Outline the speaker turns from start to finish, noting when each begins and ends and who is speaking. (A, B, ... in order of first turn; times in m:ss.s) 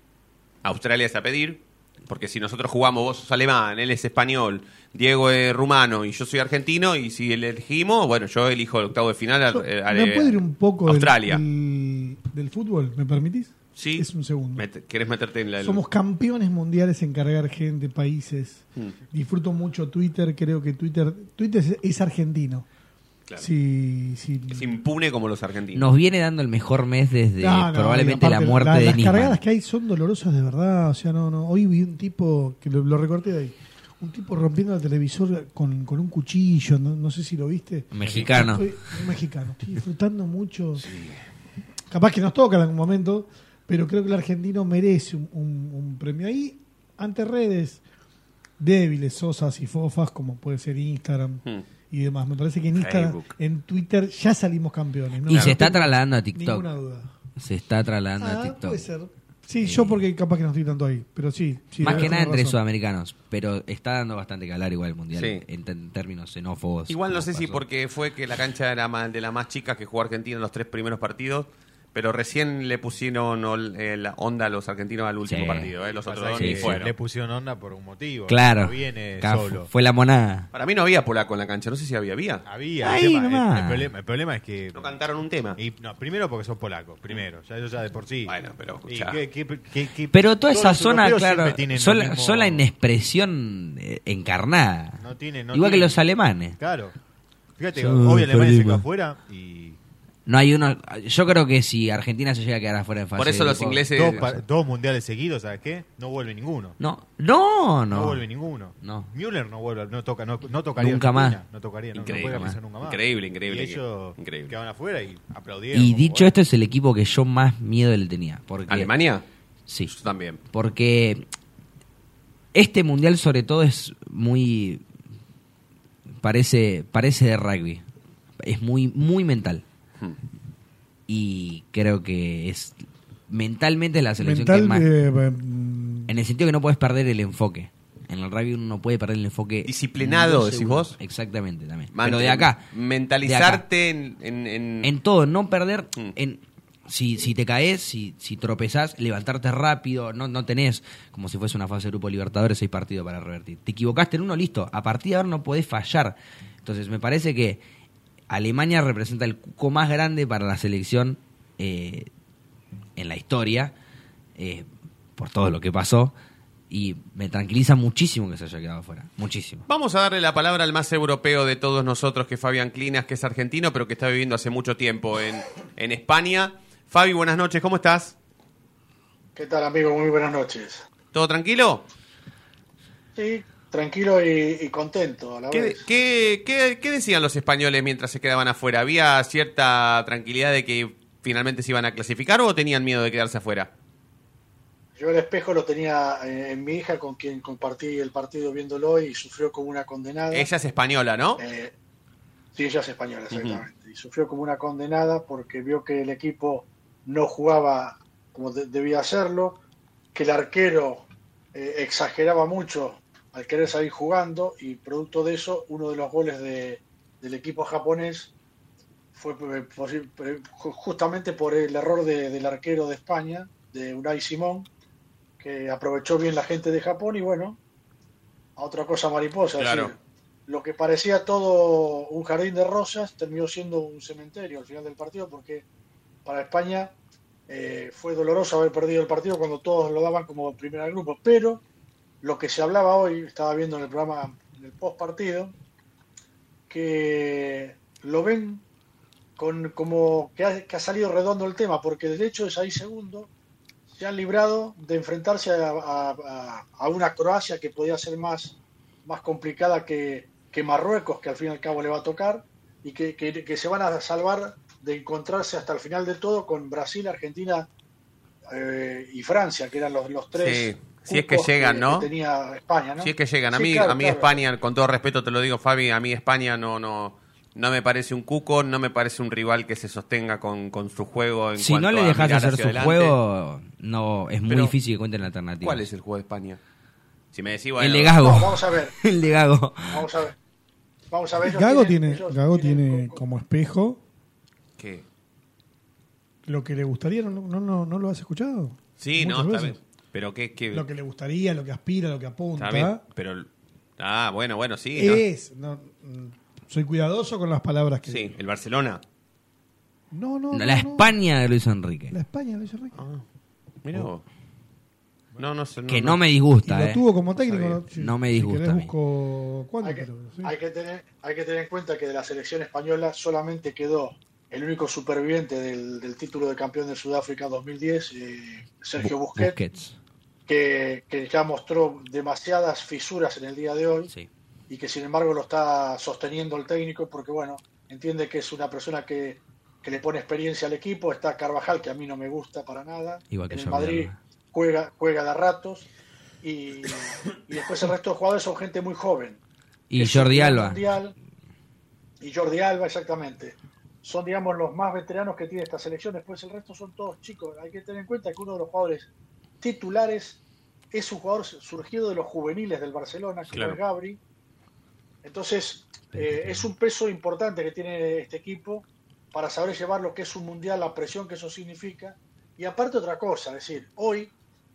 0:00.6-0:11.4 A
0:09.5-0:14.6 B
0:13.7-0:15.8 A
0:15.6-0:22.6 B
0:23.4-0:24.7 B
0:24.5-0:25.9 A
0:25.8-0:29.4 C
0:27.4-0:40.8 B
0:37.9-0:38.7 C
0:41.9-0:47.8 B
0:48.6-0:57.1 B
0:52.7-0:53.3 A
0:55.3-0:56.7 C
0:57.4-0:58.8 C
0:58.2-1:02.6 B
0:59.6-1:00.0 C
1:01.8-1:07.6 C
1:05.1-1:05.4 A
1:06.9-1:16.9 A
1:15.2-1:15.7 C
1:15.9-1:19.7 D
1:16.4-1:16.8 C
1:18.3-1:20.5 C
1:20.5-1:22.4 A
1:22.4-1:25.0 D
1:22.8-1:23.9 C
1:24.7-1:25.6 A
1:25.5-1:28.4 D
1:28.2-1:29.2 A
1:28.9-1:32.6 D
1:30.1-1:36.6 C
1:35.0-1:36.0 D
1:36.6-1:36.9 D
1:37.6-1:39.8 D
1:37.7-1:38.8 C
1:40.2-1:44.4 C
1:43.2-1:44.2 A
1:43.9-1:46.8 D
1:46.8-1:48.2 C
1:47.9-1:56.3 D
1:48.8-1:49.1 C
1:50.8-1:51.4 C
1:52.0-1:54.5 A
1:52.2-1:52.6 C
1:55.7-1:58.9 C
1:58.7-1:59.2 A
1:59.7-1:59.9 C
1:59.9-2:00.4 A
2:00.5-2:01.2 C
2:02.5-2:04.8 C
2:06.2-2:07.8 C
2:08.4-2:09.6 C
2:11.1-2:14.9 C
2:14.2-2:16.1 B
2:16.1-2:22.6 C
2:19.6-2:21.0 A
2:21.9-2:24.9 A
2:23.2-2:23.6 C
2:24.8-2:37.6 C
2:38.3-2:42.1 C
2:43.0-2:43.7 C
2:44.4-2:46.1 C
2:46.7-2:49.6 C
2:49.7-2:58.1 A
2:59.4-3:00.8 E
3:01.1-3:01.9 A
3:03.2-3:05.8 E
3:05.5-3:13.7 A
3:15.0-3:20.5 E
3:20.3-3:21.4 A
3:21.4-3:21.7 E
3:22.5-3:29.6 E
3:23.3-3:23.6 A
3:30.1-3:38.3 E
3:39.1-3:44.7 E
3:45.4-3:47.6 E
3:48.6-3:55.6 E
3:49.6-3:49.9 A
3:56.2-3:56.9 E
3:57.5-4:01.6 E
4:02.2-4:05.5 E
4:06.7-4:08.6 E
4:09.4-4:13.3 E
4:13.9-4:27.7 E
4:28.5-4:34.4 E
4:30.3-4:32.1 A
4:33.0-4:43.2 A
4:41.6-4:45.9 C
4:44.5-4:44.7 A
4:45.6-4:46.6 A
4:47.3-4:48.1 A
4:47.8-4:50.0 C
4:48.1-4:48.9 E
4:49.9-4:50.3 E
4:51.1-4:53.2 E
4:51.4-4:54.0 B
4:54.8-4:55.0 A
4:56.4-4:59.8 B
4:59.0-5:00.9 A
5:00.7-5:03.0 B
5:02.6-5:05.2 A
5:04.9-5:08.4 B
5:08.0-5:09.0 A
5:10.1-5:11.2 B
5:10.5-5:12.2 C
5:12.1-5:13.0 B
5:12.9-5:13.2 A
5:13.8-5:14.2 A
5:15.4-5:16.2 A
5:15.9-5:17.0 C
5:16.6-5:20.5 B
5:17.4-5:17.8 A
5:17.9-5:18.9 C
5:19.8-5:29.6 E
5:29.0-5:30.0 C
5:30.5-5:34.1 E
5:34.7-5:45.8 E
5:43.3-5:44.2 C
5:46.4-5:49.4 E
5:49.9-5:50.8 C
5:50.0-5:51.1 E
5:52.2-5:59.1 E
5:59.6-6:00.4 E
6:00.9-6:04.2 E
6:03.5-6:03.8 A
6:05.2-6:14.3 E
6:06.2-6:06.7 C